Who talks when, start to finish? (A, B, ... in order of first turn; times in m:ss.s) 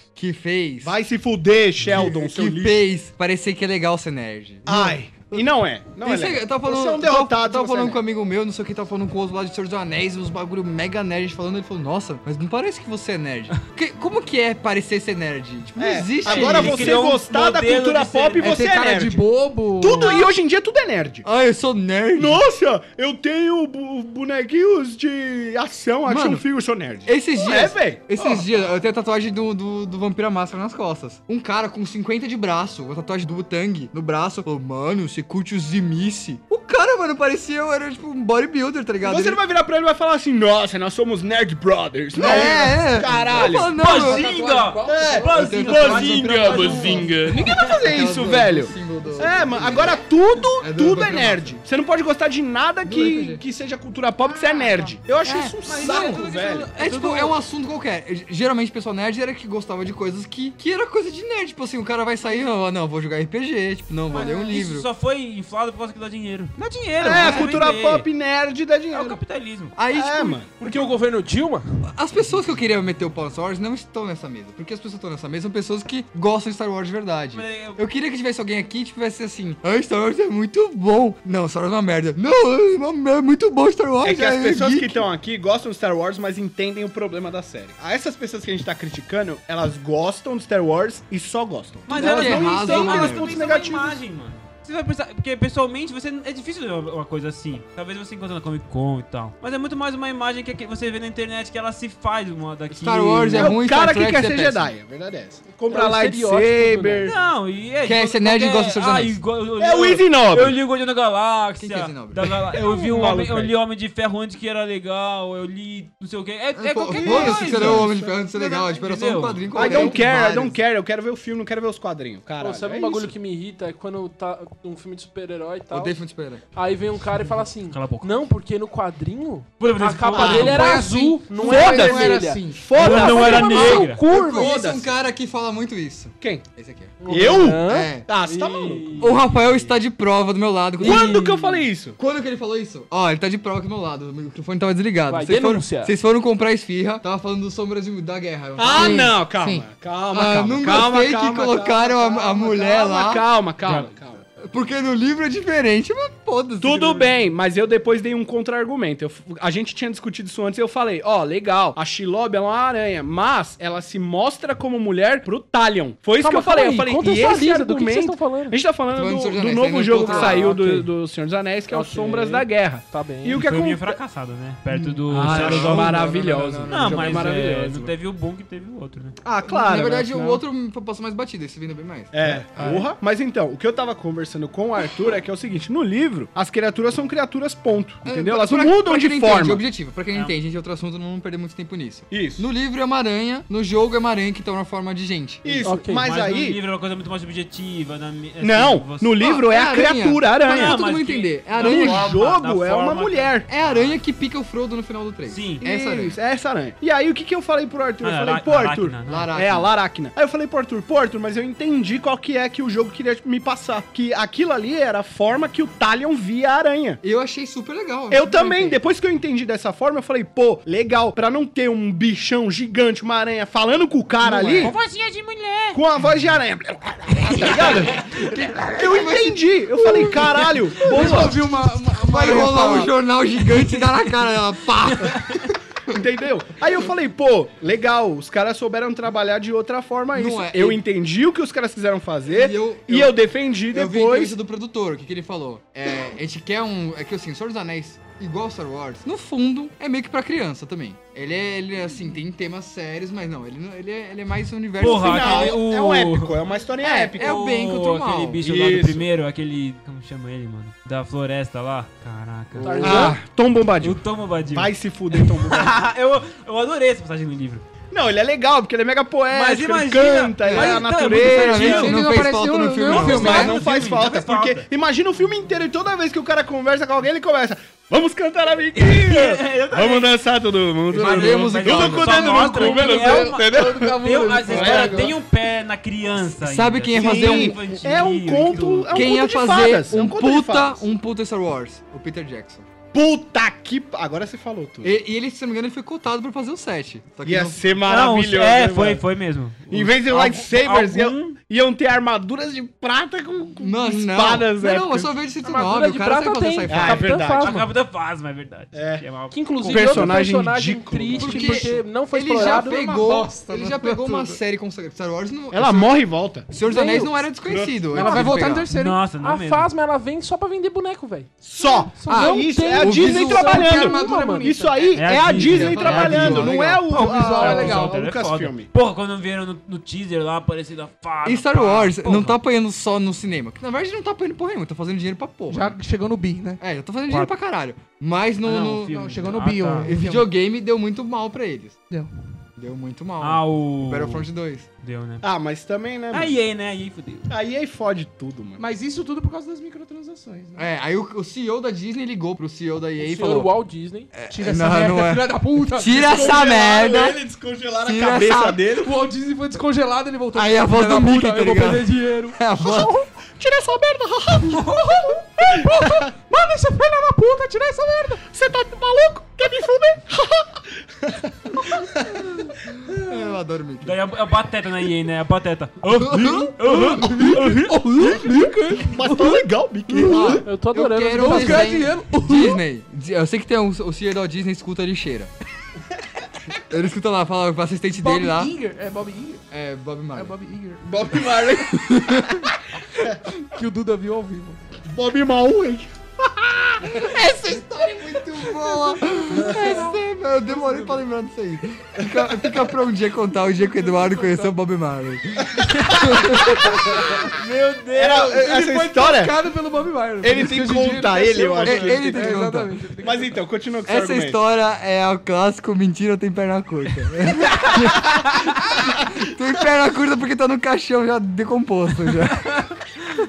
0:00.2-0:01.0 A
0:00.8-0:02.8 B
0:01.8-0:02.1 C
0:01.8-0:05.5 A
0:04.6-0:08.0 B
0:06.0-0:17.0 A
0:15.8-0:19.2 B
0:16.2-0:18.6 C
0:18.4-0:20.1 D
0:19.8-0:21.2 B
0:21.2-0:22.4 A
0:22.1-0:28.5 B
0:26.0-0:26.4 A
0:27.0-0:39.4 A
0:39.0-0:43.7 B
0:42.1-0:47.4 A
0:43.8-0:47.7 C
0:43.8-0:45.3 D
0:44.8-0:56.7 B
0:47.9-0:50.0 A
0:50.6-0:51.6 A
0:52.8-0:53.4 A
0:54.3-0:54.9 D
0:55.2-1:04.9 A
0:55.6-0:57.4 C
1:04.1-1:08.0 C
1:07.0-1:09.2 B
1:07.1-1:07.7 A
1:08.9-1:09.7 C
1:09.8-1:10.4 A
1:09.9-1:10.9 B
1:10.6-1:11.6 E
1:11.9-1:25.0 A
1:17.3-1:17.8 C
1:24.0-1:34.0 B
1:31.9-1:43.6 C
1:31.9-1:33.4 A
1:42.7-1:44.7 A
1:43.3-1:47.2 B
1:45.7-1:47.1 E
1:47.0-2:00.0 C
1:47.8-1:49.2 A
1:49.6-1:50.6 B
1:51.6-1:52.5 A
1:52.5-1:53.5 B
1:56.6-2:00.6 A
1:57.0-1:57.9 B
1:59.5-2:03.1 B
2:02.4-2:06.0 E
2:05.7-2:06.4 A
2:06.5-2:14.5 E
2:07.7-2:08.1 C
2:09.6-2:10.8 C
2:10.1-2:10.6 B
2:10.2-2:12.7 D
2:11.4-2:14.9 B
2:12.7-2:14.0 C
2:12.9-2:18.1 A
2:16.2-2:16.4 B
2:17.0-2:19.2 E
2:17.0-2:19.1 B
2:19.0-2:21.2 A
2:19.1-2:19.7 C
2:20.8-2:22.0 B
2:20.8-2:21.7 E
2:22.0-2:33.2 A
2:25.1-2:25.9 E
2:28.6-2:34.2 B
2:28.8-2:29.1 D
2:34.4-2:37.1 A
2:36.6-2:54.0 B
2:46.2-2:48.6 E
2:48.9-2:50.6 A
2:50.0-2:50.9 E
2:51.7-2:53.4 E
2:53.3-2:56.0 C
2:54.7-2:57.3 A
2:55.1-2:57.9 B
2:56.7-2:59.2 C
2:59.2-3:00.4 B
2:59.4-3:02.8 A
3:02.1-3:09.6 B
3:08.0-3:15.7 A
3:12.1-3:12.5 B
3:15.4-3:16.6 B
3:15.6-3:16.0 E
3:16.0-3:19.3 C
3:18.4-3:20.8 B
3:19.2-3:22.2 A
3:20.4-3:24.0 C
3:21.6-3:23.4 B
3:23.5-3:26.2 A
3:25.3-3:25.6 C
3:25.6-3:37.0 B
3:28.0-3:29.3 C
3:29.1-3:29.7 A
3:37.0-3:38.8 A
3:38.1-3:44.8 B
3:44.2-3:44.7 A
3:44.6-3:45.8 C
3:45.7-3:48.0 B
3:47.2-3:51.4 A
3:47.4-3:48.0 C
3:48.7-3:51.4 B
3:50.8-3:52.9 D
3:52.0-3:55.5 A
3:53.6-3:54.0 C
3:55.0-3:55.4 C
3:55.9-4:04.4 B
4:00.1-4:00.8 A
4:02.3-4:03.2 A
4:03.7-4:15.6 A
4:14.8-4:16.4 C
4:14.8-4:17.4 B
4:16.8-4:18.4 A
4:17.2-4:23.2 C
4:18.4-4:19.1 B
4:22.6-4:23.2 E
4:22.8-4:25.8 B
4:23.8-4:27.6 C
4:27.9-4:31.9 B
4:29.3-4:32.2 C
4:30.5-4:33.6 A
4:31.6-4:33.5 D
4:32.9-4:34.6 C
4:33.0-4:45.2 B
4:38.7-4:40.1 C
4:40.9-4:42.6 A
4:40.9-4:49.1 C
4:42.4-4:45.1 D
4:46.3-4:47.7 A
4:46.9-4:50.8 B
4:48.9-4:52.7 A
4:52.9-4:55.0 B
4:54.8-4:57.6 A
4:57.2-4:59.0 B
4:57.8-5:01.4 C
4:59.7-5:05.1 B
5:03.6-5:07.2 A
5:05.4-5:07.7 E
5:06.7-5:07.6 B
5:07.4-5:10.2 C
5:08.7-5:09.0 B
5:09.3-5:12.8 E
5:09.7-5:11.6 B
5:11.2-5:18.7 A
5:12.3-5:14.4 D
5:15.5-5:16.5 B
5:16.7-5:17.1 E
5:16.7-5:17.1 D
5:17.4-5:18.5 B
5:17.9-5:19.0 D
5:18.7-5:19.7 C
5:19.2-5:21.4 E
5:21.4-5:28.7 B
5:21.6-5:22.6 D
5:22.0-5:24.6 E
5:22.8-5:23.8 A
5:23.2-5:25.0 D
5:24.9-5:32.4 C
5:25.1-5:26.8 A
5:26.2-5:28.0 D
5:31.2-5:35.8 A
5:35.5-5:36.6 D
5:36.6-5:41.8 A
5:37.1-5:37.3 C
5:38.4-5:39.9 C
5:38.9-5:40.3 D
5:42.6-5:44.7 A
5:43.2-5:44.3 C
5:44.8-5:45.3 C
5:45.2-5:46.4 B
5:46.1-5:47.3 C
5:47.3-5:48.6 B
5:48.6-5:50.7 D
5:50.6-5:53.6 A
5:53.0-5:54.1 E
5:54.1-5:57.2 A
5:54.3-5:56.5 D
5:56.0-5:58.9 B
5:57.8-5:58.7 A
5:58.7-6:02.4 D
6:00.3-6:03.0 A
6:02.6-6:06.0 B
6:04.5-6:05.2 C
6:05.5-6:08.2 D
6:08.3-6:12.2 B
6:12.4-6:14.0 A
6:12.8-6:13.1 B
6:13.8-6:17.7 C
6:16.0-6:16.5 A
6:16.6-6:20.4 D
6:17.2-6:20.4 B
6:20.0-6:25.3 A
6:20.4-6:21.8 E
6:21.1-6:22.6 D
6:26.7-6:28.5 A
6:27.9-6:29.4 D
6:29.5-6:30.3 A
6:30.1-6:31.4 D
6:30.8-6:31.7 B
6:31.6-6:32.4 A
6:33.0-6:34.6 D
6:34.9-6:37.2 B
6:36.9-6:40.0 D
6:37.0-6:46.8 A
6:40.5-6:41.0 D
6:42.0-6:42.7 B
6:43.5-6:44.5 D
6:45.5-6:47.1 B
6:45.6-6:48.3 C
6:47.9-6:49.3 B
6:48.2-6:53.4 D
6:50.2-6:52.4 B
6:51.6-6:52.8 A
6:53.0-6:54.4 B
6:53.8-7:02.7 A